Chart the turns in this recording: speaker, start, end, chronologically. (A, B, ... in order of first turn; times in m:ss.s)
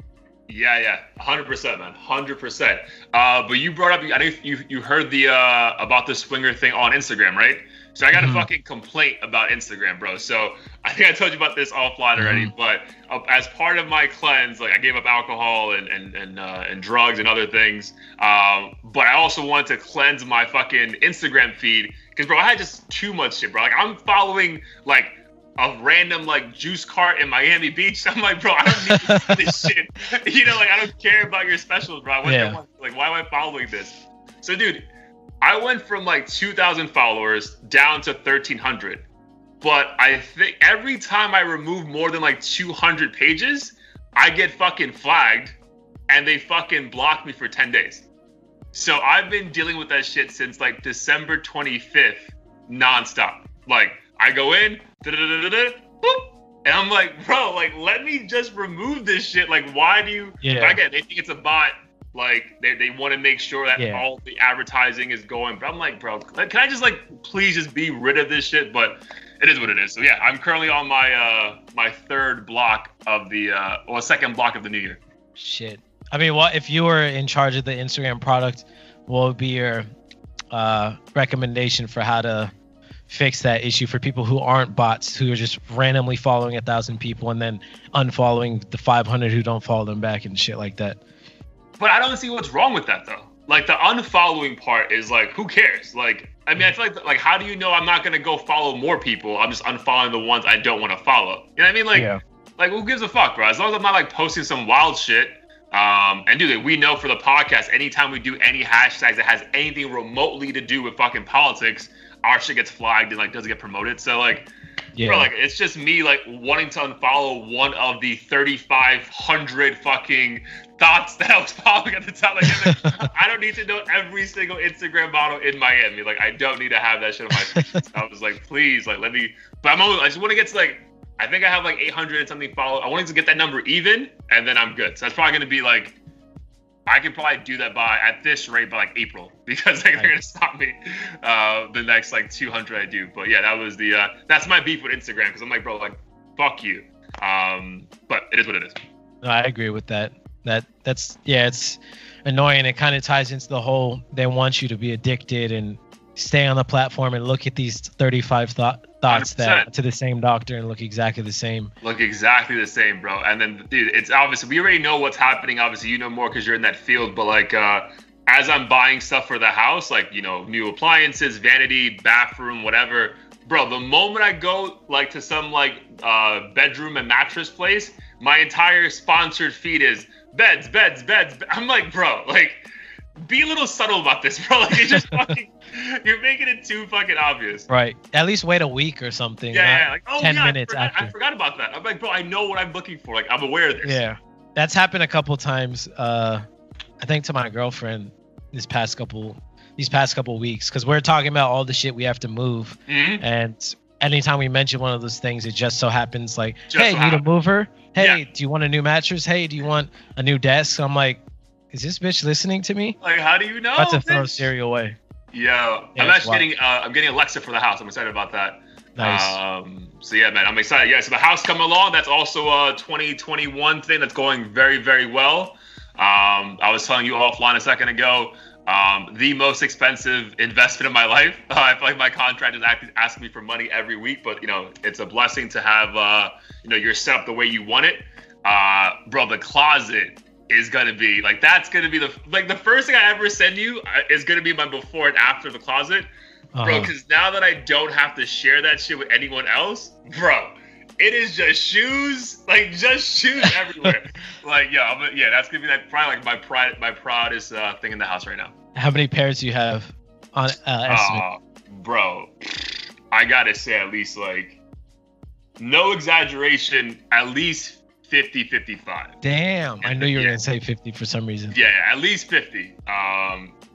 0:00.5-0:34.8 A
0:08.1-0:08.5 B
0:12.2-0:12.5 B
0:28.9-0:29.6 B
0:32.2-0:32.6 B
0:35.4-0:39.0 A
0:39.6-0:45.6 A
0:46.1-0:48.0 A
0:48.7-1:15.0 A
1:00.4-1:00.8 B
1:03.8-1:04.0 B
1:15.4-1:19.9 B
1:20.5-1:22.5 B
1:23.1-1:31.0 B
1:31.8-1:54.5 A
1:41.9-1:42.2 B
1:54.9-1:55.3 B
1:55.0-2:16.0 A
2:02.5-2:03.1 B
2:07.4-2:07.8 B
2:16.8-2:28.8 A
2:29.2-2:41.7 B
2:39.1-2:39.7 A
2:41.8-3:02.6 A
3:03.2-3:07.7 A
3:04.7-3:05.4 B
3:07.7-3:11.1 B
3:09.5-3:14.0 A
3:13.8-3:16.4 B
3:17.0-3:31.2 B
3:22.9-3:23.2 A
3:26.7-3:27.2 A
3:31.7-3:33.0 B
3:33.0-3:34.5 A
3:33.8-3:35.0 B
3:35.3-4:06.1 A
3:36.0-3:36.4 B
3:39.0-3:39.4 B
4:06.5-4:06.9 B
4:06.6-4:18.5 A
4:18.7-4:21.2 B
4:20.9-4:24.6 A
4:25.6-4:29.1 A
4:29.2-4:31.6 B
4:29.8-4:30.4 A
4:31.5-4:33.5 A